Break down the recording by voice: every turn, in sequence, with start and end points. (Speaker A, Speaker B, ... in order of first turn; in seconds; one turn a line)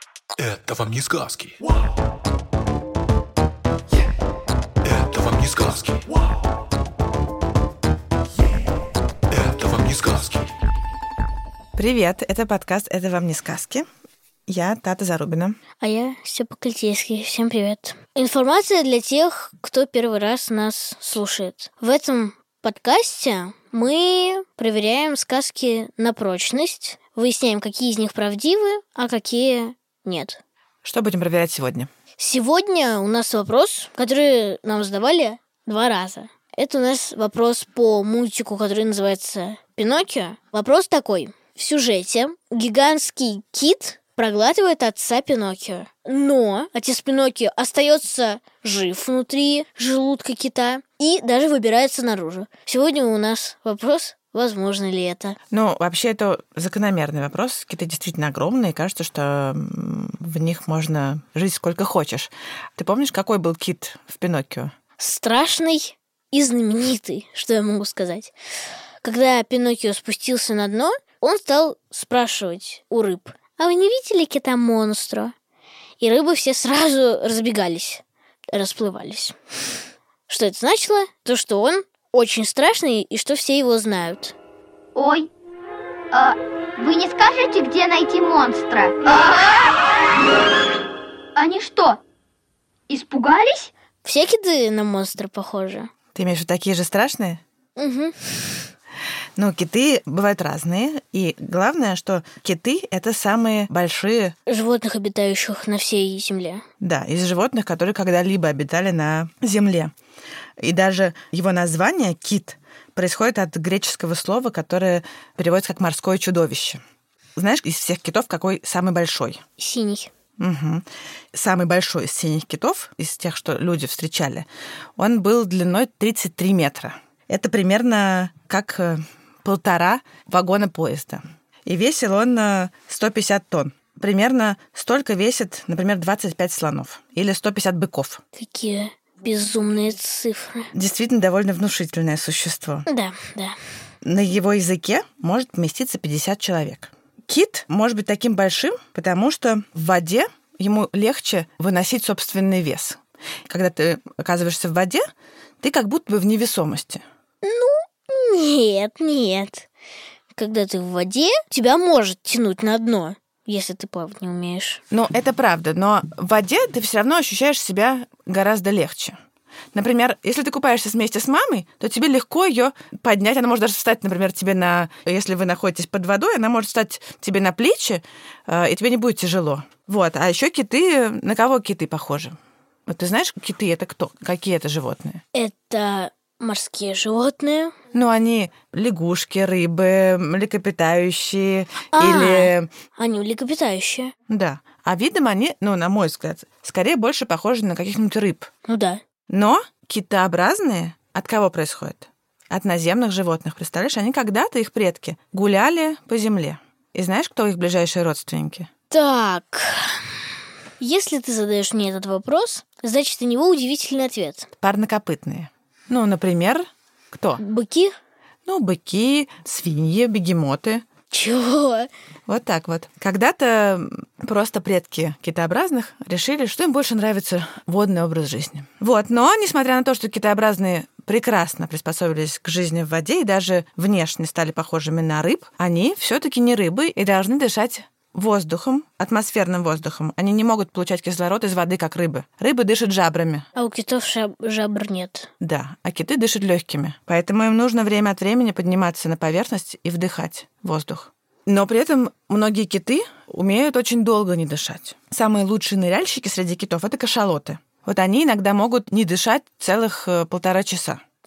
Speaker A: 0.4-1.5
Speaker A: 4.8-6.0
Speaker A: 9.3-10.4
Speaker B: 11.8-13.8
Speaker B: 14.5-15.6
Speaker C: 15.8-30.4
Speaker B: 30.8-31.9
Speaker C: 32.2-55.4
Speaker B: 55.5-64.7
Speaker C: 65.0-68.3
Speaker C: 69.0-75.3
Speaker C: 76.0-79.8
Speaker C: 80.3-84.3
Speaker D: 84.9-85.3
Speaker D: 86.1-89.7
Speaker D: 91.3-92.0
Speaker D: 92.9-93.7
Speaker C: 94.0-95.9
Speaker B: 96.1-97.4
Speaker C: 97.8-98.7
Speaker B: 99.4-104.3
Speaker C: 104.5-106.6
Speaker B: 106.8-109.9
Speaker B: 110.6-116.8
Speaker B: 117.3-119.4
Speaker C: 119.6-120.1
Speaker B: 120.4-124.5
Speaker B: 125.0-138.2
Speaker C: 138.3-140.7
Speaker B: 140.7-142.8
Speaker C: 142.8-143.6
Speaker B: 144.0-155.0
Speaker B: 155.6-157.0
Speaker C: 157.4-159.7
Speaker C: 160.3-164.8
Speaker B: 164.9-169.2
Speaker B: 169.7-182.3
Speaker B: 182.9-185.2
Speaker C: 185.3-187.7
Speaker B: 187.9-192.7
Speaker C: 191.9-194.1
Speaker B: 194.3-198.5
Speaker C: 198.7-199.0
Speaker B: 199.3-208.7
Speaker C: 208.9-210.2
Speaker C: 210.8-214.5
Speaker B: 214.6-217.4
Speaker C: 217.4-217.9
Speaker B: 218.4-220.8
Speaker C: 221.1-221.9
Speaker B: 222.3-243.4
Speaker C: 243.5-245.3
Speaker B: 245.4-261.0